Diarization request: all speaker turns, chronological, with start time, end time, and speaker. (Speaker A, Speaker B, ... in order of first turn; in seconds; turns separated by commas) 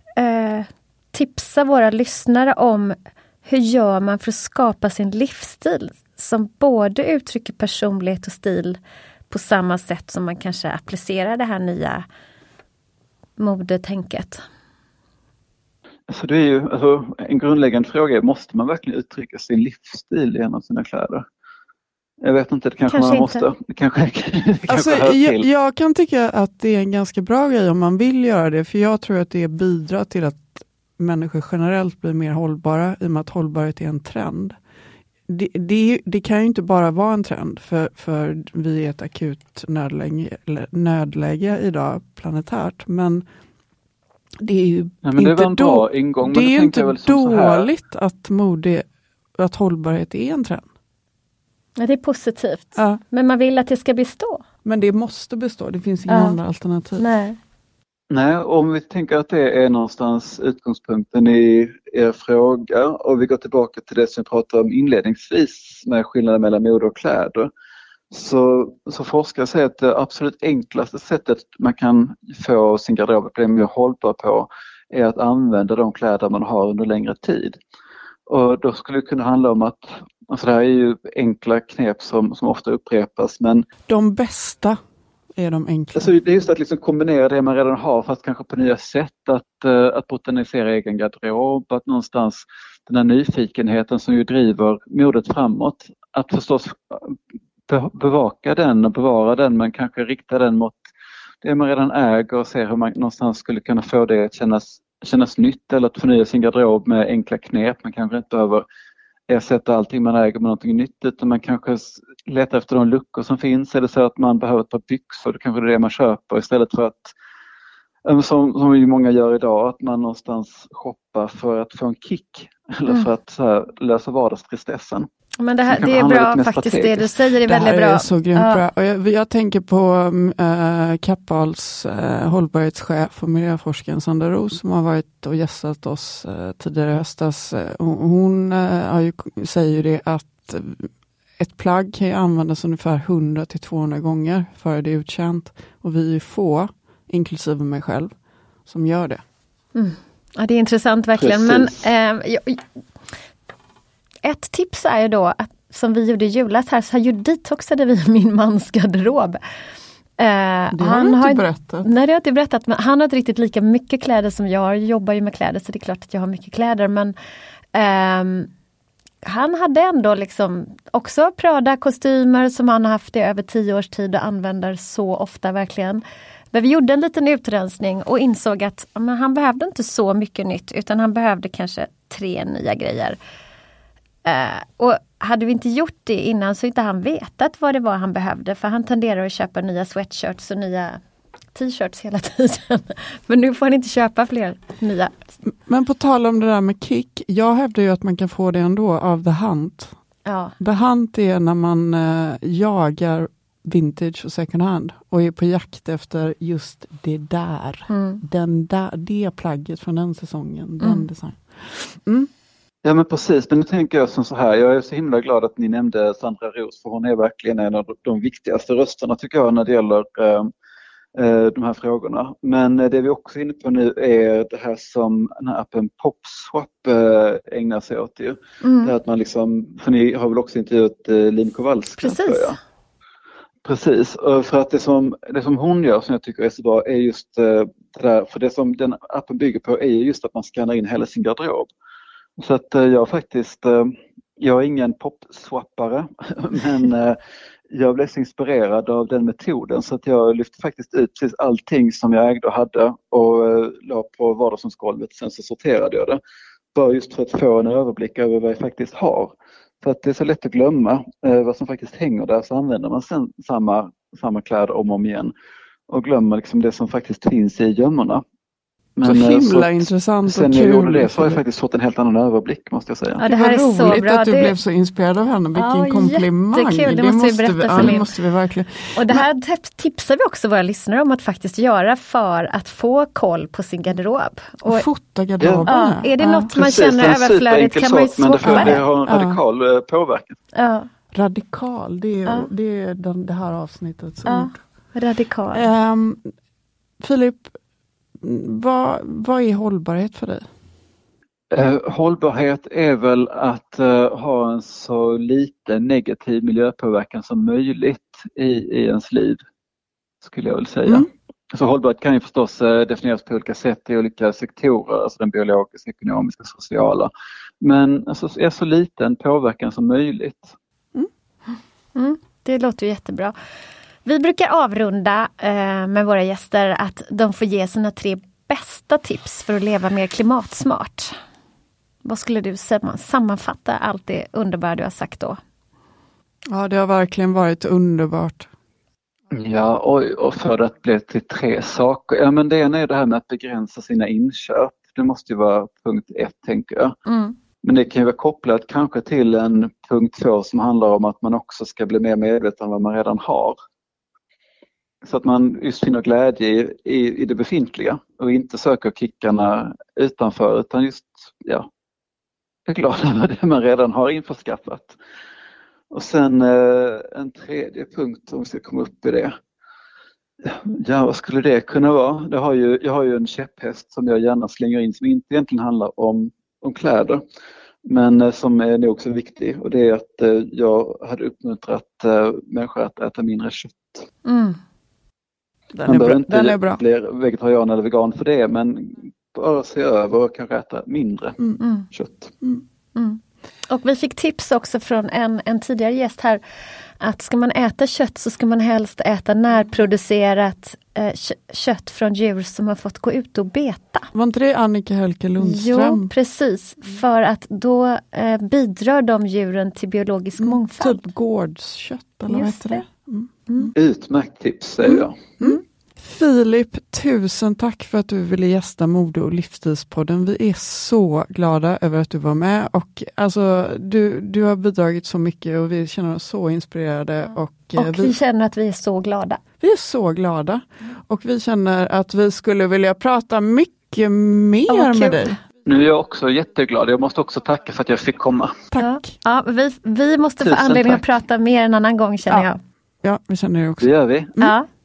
Speaker A: 0.2-8.8, Speaker A: 9.3-12.1, Speaker A: 13.4-14.4, Speaker B: 16.1-21.2, Speaker B: 22.2-25.4, Speaker A: 22.9-23.5, Speaker C: 24.7-34.6, Speaker C: 35.3-43.2, Speaker C: 44.4-50.7, Speaker B: 45.0-47.7, Speaker A: 51.8-54.4, Speaker C: 52.8-53.0, Speaker C: 54.6-57.0, Speaker A: 56.1-56.4, Speaker A: 57.0-57.4, Speaker B: 58.1-67.5, Speaker B: 68.1-77.6, Speaker B: 78.3-83.7, Speaker C: 83.9-84.8, Speaker C: 85.3-86.1, Speaker B: 86.0-97.2, Speaker B: 97.7-100.9, Speaker B: 101.4-108.7, Speaker B: 109.3-117.1, Speaker B: 118.0-125.1, Speaker A: 125.4-128.6, Speaker B: 125.7-127.1, Speaker C: 127.4-148.1, Speaker C: 148.7-149.2, Speaker A: 149.8-152.6, Speaker B: 151.2-151.7, Speaker A: 154.2-159.4, Speaker A: 160.2-167.2, Speaker C: 160.7-161.9, Speaker A: 167.7-168.5, Speaker A: 169.2-183.2, Speaker A: 184.2-191.0, Speaker A: 191.5-195.3, Speaker C: 195.5-199.9, Speaker A: 200.3-200.5, Speaker C: 200.6-212.3, Speaker A: 207.9-208.2, Speaker A: 210.8-211.1, Speaker B: 212.8-220.5, Speaker B: 221.2-232.6, Speaker A: 228.6-228.9, Speaker A: 232.0-232.6, Speaker B: 233.7-241.7, Speaker B: 242.4-247.2, Speaker B: 247.7-256.2, Speaker B: 256.7-265.3, Speaker B: 265.9-268.2, Speaker B: 269.0-273.2, Speaker C: 269.0-271.4, Speaker A: 273.2-274.5, Speaker C: 273.2-279.2, Speaker A: 275.6-278.1, Speaker A: 278.9-284.9, Speaker C: 284.6-286.5, Speaker B: 285.4-285.7, Speaker A: 285.7-288.8, Speaker B: 286.5-290.4, Speaker C: 288.5-289.4, Speaker A: 290.5-290.9, Speaker C: 291.1-294.6, Speaker A: 292.2-292.5, Speaker A: 294.3-295.7, Speaker C: 295.5-296.3, Speaker C: 297.0-297.5, Speaker C: 298.2-300.5, Speaker B: 301.5-309.4, Speaker B: 310.2-317.1, Speaker B: 317.6-320.5, Speaker A: 321.9-323.4, Speaker A: 324.1-331.1, Speaker A: 332.0-335.4, Speaker C: 336.5-338.5, Speaker B: 339.3-347.0, Speaker A: 347.1-347.4, Speaker B: 347.6-353.6, Speaker B: 355.0-361.7, Speaker B: 362.7-365.0, Speaker B: 365.9-369.4, Speaker B: 370.5-377.2, Speaker B: 377.9-384.1, Speaker A: 384.2-384.6, Speaker C: 385.7-386.8, Speaker B: 385.9-391.4, Speaker A: 391.6-391.9, Speaker B: 391.9-392.3, Speaker A: 392.9-396.4, Speaker A: 397.0-404.1, Speaker C: 404.1-406.1, Speaker A: 405.4-411.1, Speaker C: 410.4-413.7, Speaker A: 412.3-412.9, Speaker B: 413.8-415.2, Speaker C: 414.8-428.1, Speaker A: 427.8-429.4, Speaker C: 429.6-435.4, Speaker A: 434.7-435.4, Speaker B: 435.6-438.6, Speaker C: 438.7-439.1, Speaker A: 438.8-442.6, Speaker B: 440.4-441.0, Speaker C: 443.0-444.5, Speaker B: 443.8-444.3, Speaker A: 444.4-444.7